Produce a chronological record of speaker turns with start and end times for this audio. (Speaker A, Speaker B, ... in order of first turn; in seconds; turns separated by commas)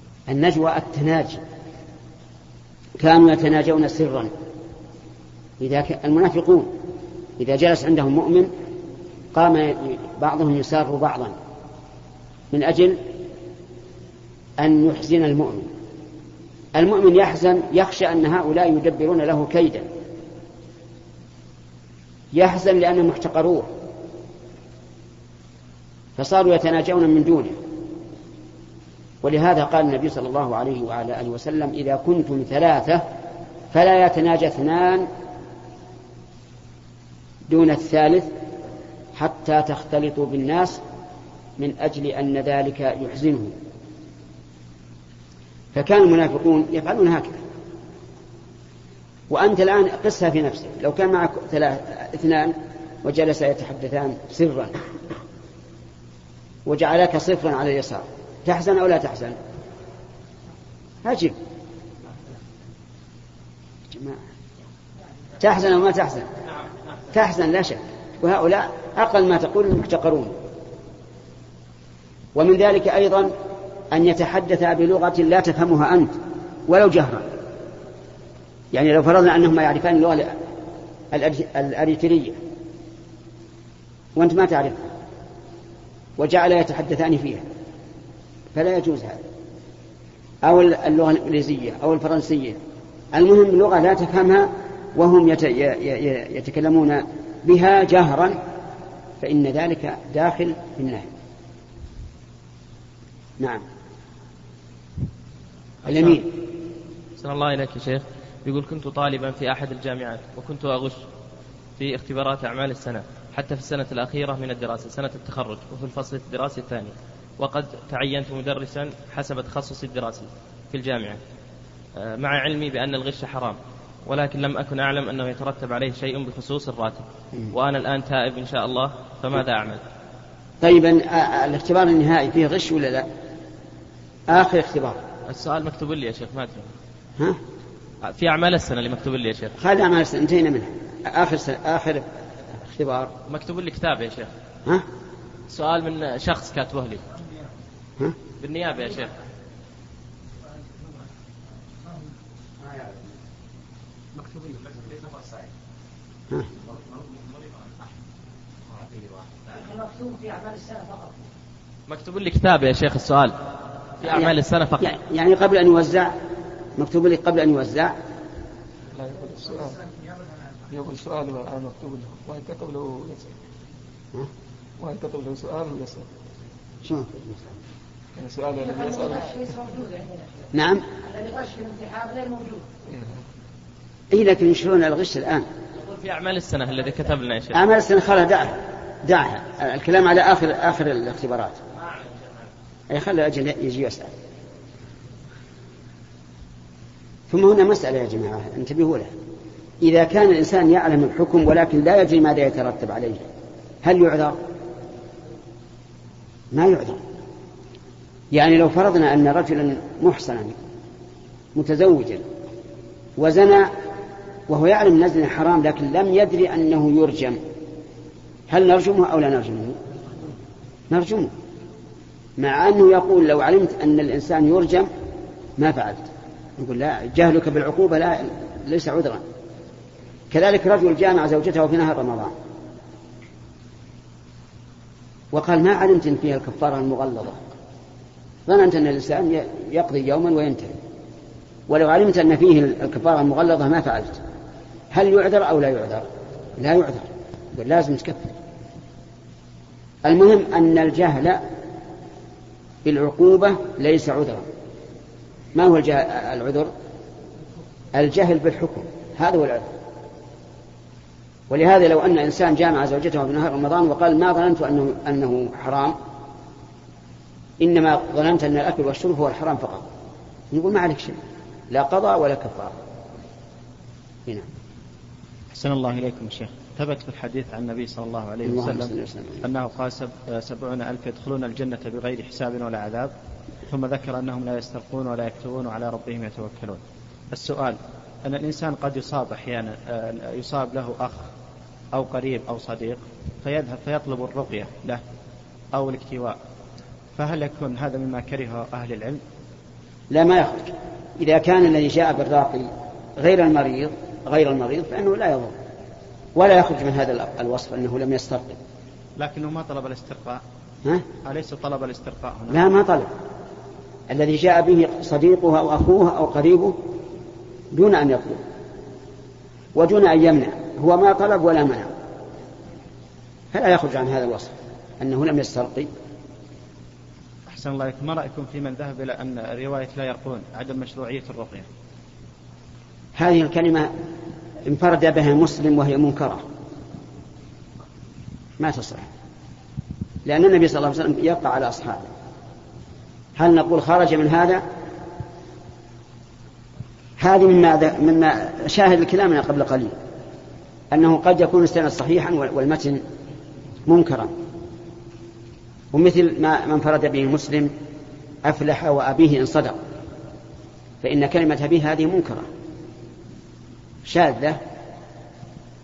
Speaker A: 0.3-1.4, Speaker A: 3.0-4.3, Speaker A: 5.6-6.7, Speaker A: 7.4-8.5, Speaker A: 9.3-11.3, Speaker A: 12.5-13.0, Speaker A: 14.6-15.7, Speaker A: 16.8-19.9, Speaker A: 22.3-23.7, Speaker A: 26.2-27.6, Speaker A: 29.2-33.0, Speaker A: 33.7-35.1, Speaker A: 37.5-38.3, Speaker A: 39.2-40.8, Speaker A: 41.6-43.5, Speaker A: 45.7-47.4, Speaker A: 49.3-54.8, Speaker A: 56.7-59.4, Speaker A: 61.0-61.4, Speaker A: 63.9-64.2, Speaker A: 65.4-66.3, Speaker A: 67.1-70.4, Speaker A: 72.4-73.3, Speaker A: 73.9-76.2, Speaker A: 76.7-77.3, Speaker A: 78.7-80.3, Speaker A: 81.1-82.4, Speaker A: 84.2-84.9, Speaker A: 86.2-87.4, Speaker A: 88.5-89.2, Speaker A: 90.4-92.6, Speaker A: 93.1-98.4, Speaker A: 99.2-101.1, Speaker A: 105.9-106.3, Speaker B: 107.2-111.0, Speaker B: 111.8-121.2, Speaker B: 122.0-129.8, Speaker A: 130.6-133.1, Speaker A: 134.3-135.0, Speaker B: 135.3-136.7, Speaker B: 138.0-139.5, Speaker A: 139.6-142.1, Speaker A: 142.7-143.1, Speaker B: 143.3-144.3, Speaker B: 145.5-147.0, Speaker B: 148.4-149.1, Speaker C: 159.5-161.2, Speaker B: 161.9-163.3, Speaker B: 164.0-164.9, Speaker A: 164.1-166.1, Speaker A: 166.8-167.9, Speaker D: 168.9-169.8, Speaker D: 170.7-173.3, Speaker D: 174.8-176.1, Speaker A: 176.8-177.5, Speaker D: 178.2-179.3, Speaker C: 179.2-180.3, Speaker A: 180.5-180.8, Speaker C: 180.9-182.6, Speaker A: 184.1-185.5, Speaker B: 185.8-187.6, Speaker A: 187.5-191.6, Speaker A: 192.9-194.1, Speaker A: 197.3-199.1, Speaker A: 199.8-203.2, Speaker A: 203.8-204.4, Speaker A: 206.5-207.0, Speaker A: 208.3-210.6, Speaker A: 211.6-212.2, Speaker A: 213.2-213.7, Speaker A: 214.5-217.4, Speaker A: 218.5-219.8, Speaker A: 220.9-221.3, Speaker A: 222.4-224.9, Speaker A: 225.6-226.1, Speaker A: 226.6-229.2, Speaker A: 230.3-232.3, Speaker A: 235.3-237.5, Speaker A: 238.5-240.8, Speaker A: 241.7-244.2, Speaker A: 244.9-246.1, Speaker A: 246.6-248.3, Speaker A: 250.1-251.4, Speaker A: 252.8-254.5, Speaker A: 255.6-256.7, Speaker A: 257.9-259.7, Speaker A: 261.5-266.0, Speaker A: 267.6-269.9, Speaker A: 270.5-271.2, Speaker A: 271.7-272.8, Speaker E: 275.5-283.1, Speaker A: 278.4-279.4, Speaker E: 283.7-291.3, Speaker E: 291.9-295.0, Speaker E: 295.7-296.4, Speaker E: 297.2-299.2, Speaker A: 300.1-305.6, Speaker A: 306.4-308.6, Speaker E: 309.2-310.4, Speaker E: 311.2-312.7, Speaker A: 312.5-313.1, Speaker A: 314.1-316.8, Speaker A: 317.7-318.4, Speaker A: 319.8-321.9, Speaker A: 323.5-325.9, Speaker E: 327.5-331.7, Speaker A: 333.2-333.9, Speaker A: 334.7-336.4, Speaker A: 338.6-339.1, Speaker A: 340.3-342.1, Speaker A: 343.4-344.6, Speaker A: 347.2-350.0, Speaker A: 350.9-353.0, Speaker A: 353.9-354.3, Speaker A: 355.9-357.7, Speaker A: 358.4-359.8, Speaker A: 361.0-362.5, Speaker A: 364.1-364.6